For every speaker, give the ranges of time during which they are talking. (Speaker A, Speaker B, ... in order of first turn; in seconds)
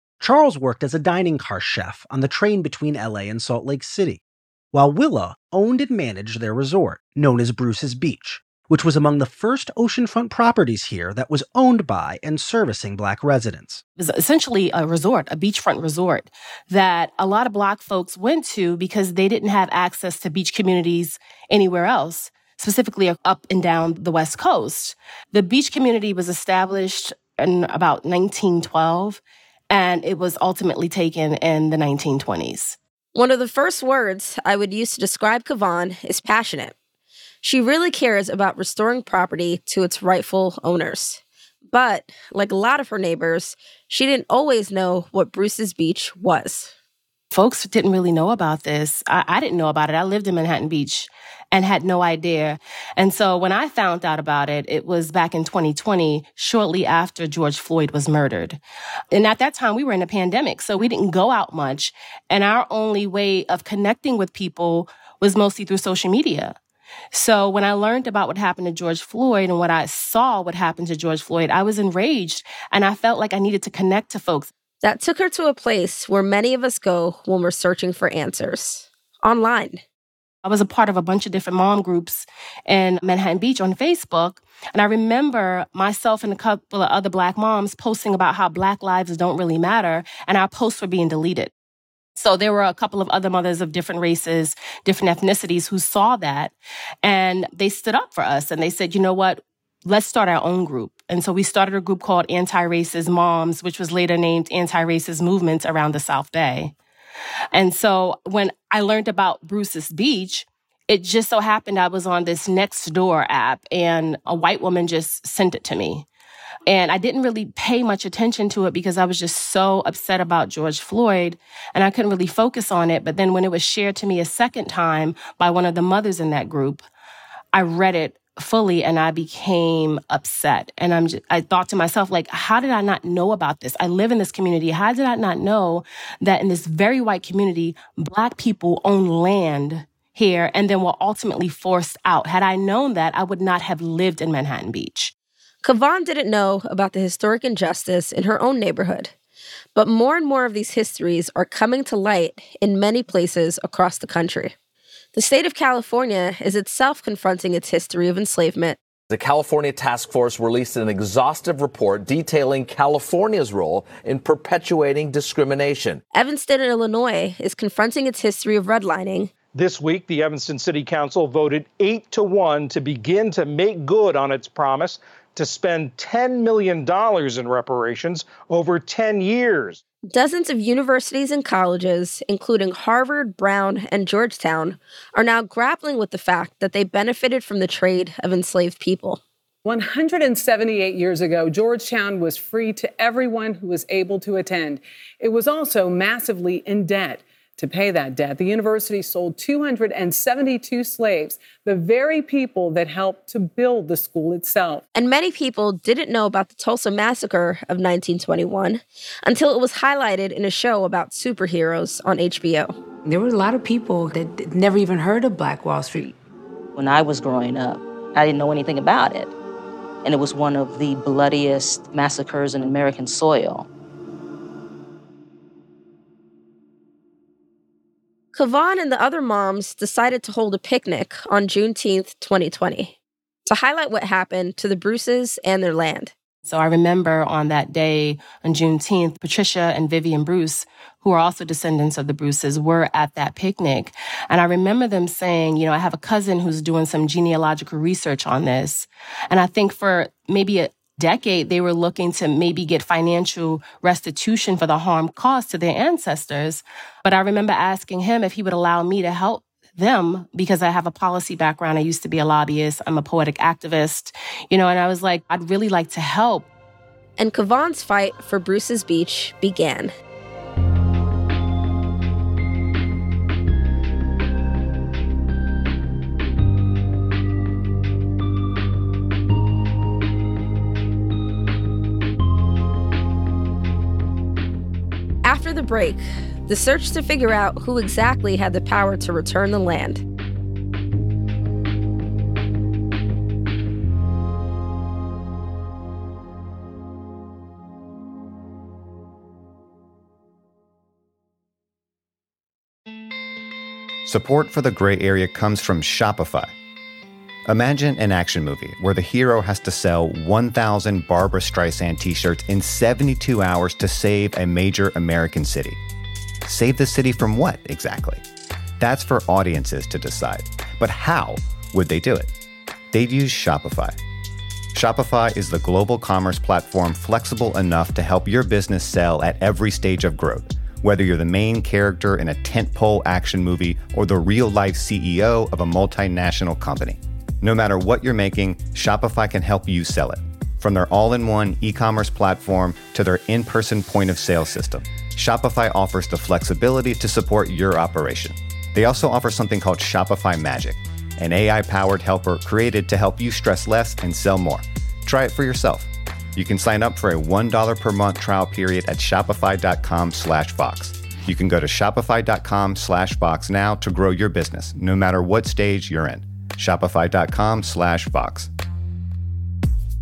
Speaker A: 0.2-13.8
Speaker B: 14.0-32.8, 47.3-58.6, 59.1-66.5, 67.1-74.5, 80.4-91.5, 92.2-106.7, 107.5-116.0, 116.7-126.8, 127.5-145.1, 236.4-266.5
Speaker C: 33.1-36.7, 37.4-46.7, 74.8-79.8, 145.6-149.1, 149.7-154.5, 155.1-158.8, 166.1-169.3, 180.1-189.2, 204.9-212.7, 228.3-232.9, 233.4-236.1, 267.2-269.9, 285.2-290.0
Speaker D: 159.1-166.0
Speaker E: 169.5-179.8
Speaker F: 189.6-204.8
Speaker G: 213.1-216.2
Speaker H: 216.8-219.3, 220.0-223.7
Speaker I: 304.0-306.5, 307.5-315.8, 316.4-318.2, 318.8-322.3, 322.9-323.9, 324.7-368.5